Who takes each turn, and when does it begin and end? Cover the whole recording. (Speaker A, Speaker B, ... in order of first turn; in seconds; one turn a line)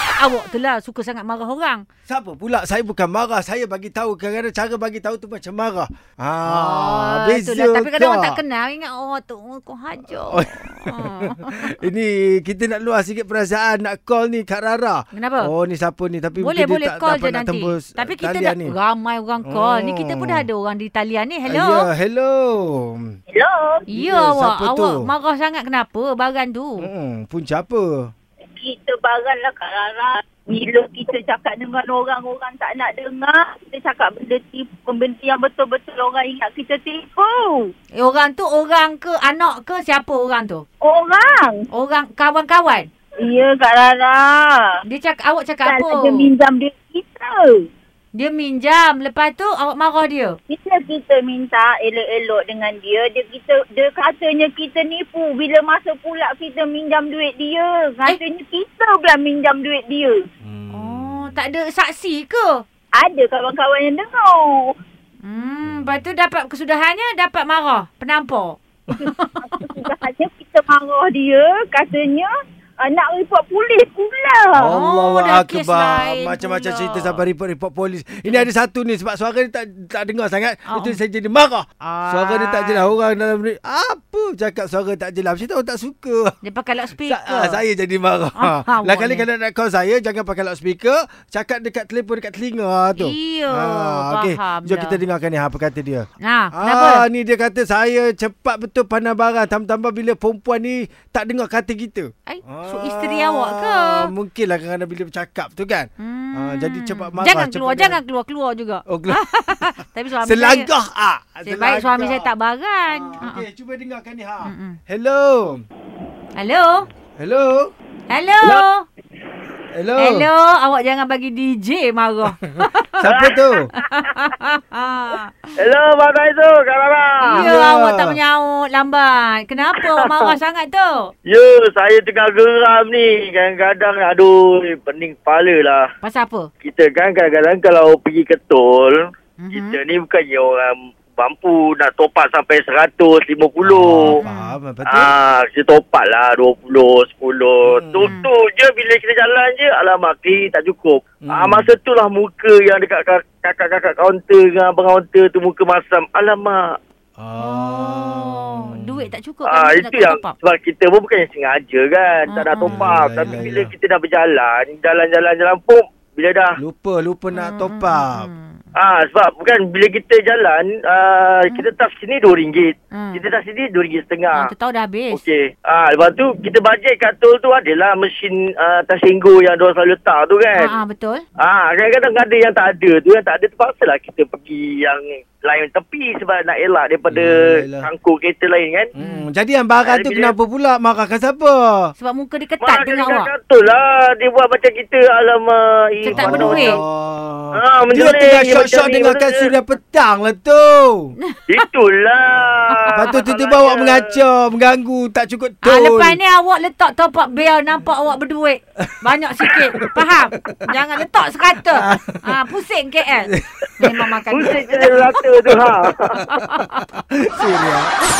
Speaker A: 0.2-1.8
Speaker B: 2.1-8.4
Speaker A: 6.5-11.8
Speaker B: 10.1-18.8
Speaker A: 15.1-15.5
Speaker A: 16.4-21.9
Speaker B: 19.4-20.4
Speaker B: 21.4-23.1
Speaker C: 23.3-23.8
Speaker A: 23.9-26.9
Speaker B: 23.9-25.1
Speaker B: 26.8-28.1
Speaker C: 28.6-37.7
Speaker A: 38.0-40.6
Speaker C: 40.8-41.6
Speaker A: 41.7-42.9
Speaker C: 43.2-44.8
Speaker A: 44.9-46.3
Speaker C: 45.6-47.6
Speaker A: 48.1-50.4
Speaker C: 50.5-60.2
Speaker B: 60.4-61.4
Speaker A: 60.7-62.6
Speaker C: 62.9-64.7
Speaker A: 65.2-69.7
Speaker B: 65.7-66.0
Speaker C: 69.6-72.3
Speaker C: 72.8-74.7
Speaker B: 74.5-86.3
Speaker A: 74.7-77.2
Speaker A: 78.2-78.5
Speaker A: 80.7-81.0
Speaker A: 81.8-82.9
Speaker A: 86.4-87.6
Speaker B: 87.0-108.0
Speaker A: 88.3-89.2
Speaker A: 93.0-95.0
Speaker A: 96.2-97.0
Speaker A: 102.2-104.1
Speaker A: 106.0-110.7
Speaker B: 108.8-112.3
Speaker A: 111.4-113.5
Speaker B: 112.8-115.6
Speaker A: 114.4-114.8
Speaker A: 116.3-116.8
Speaker B: 117.2-117.7
Speaker A: 118.1-118.8
Speaker B: 119.7-120.3
Speaker A: 120.0-122.9
Speaker B: 122.9-123.7
Speaker D: 123.0-123.6
Speaker A: 123.7-125.3
Speaker D: 125.6-127.5
Speaker A: 127.2-131.1
Speaker B: 127.3-128.2
Speaker D: 131.3-135.8
Speaker A: 136.0-136.5
Speaker D: 136.6-144.1
Speaker A: 139.4-139.8
Speaker B: 143.6-145.1
Speaker A: 144.2-144.5
Speaker D: 144.9-156.8
Speaker B: 147.7-148.1
Speaker A: 148.0-148.3
Speaker B: 151.2-151.7
Speaker B: 157.2-159.1
Speaker A: 157.4-160.3
Speaker D: 159.4-166.5
Speaker A: 162.3-163.0
Speaker B: 162.6-163.7
Speaker B: 166.6-168.3
Speaker A: 167.3-168.6
Speaker D: 168.8-174.5
Speaker A: 172.9-173.2
Speaker A: 174.3-175.2
Speaker D: 175.1-180.8
Speaker A: 180.6-181.2
Speaker D: 181.4-188.9
Speaker B: 187.1-187.9
Speaker B: 188.9-191.6
Speaker A: 189.0-189.2
Speaker D: 189.8-190.3
Speaker A: 192.0-193.3
Speaker D: 192.6-196.8
Speaker A: 196.0-196.8
Speaker B: 196.1-201.1
Speaker D: 197.5-199.5
Speaker D: 201.5-204.0
Speaker A: 202.7-203.0
Speaker B: 202.9-206.2
Speaker A: 205.6-215.0
Speaker B: 209.5-209.9
Speaker B: 211.7-212.4
Speaker B: 213.3-213.9
Speaker D: 214.3-216.2
Speaker A: 216.3-216.6
Speaker B: 216.4-217.9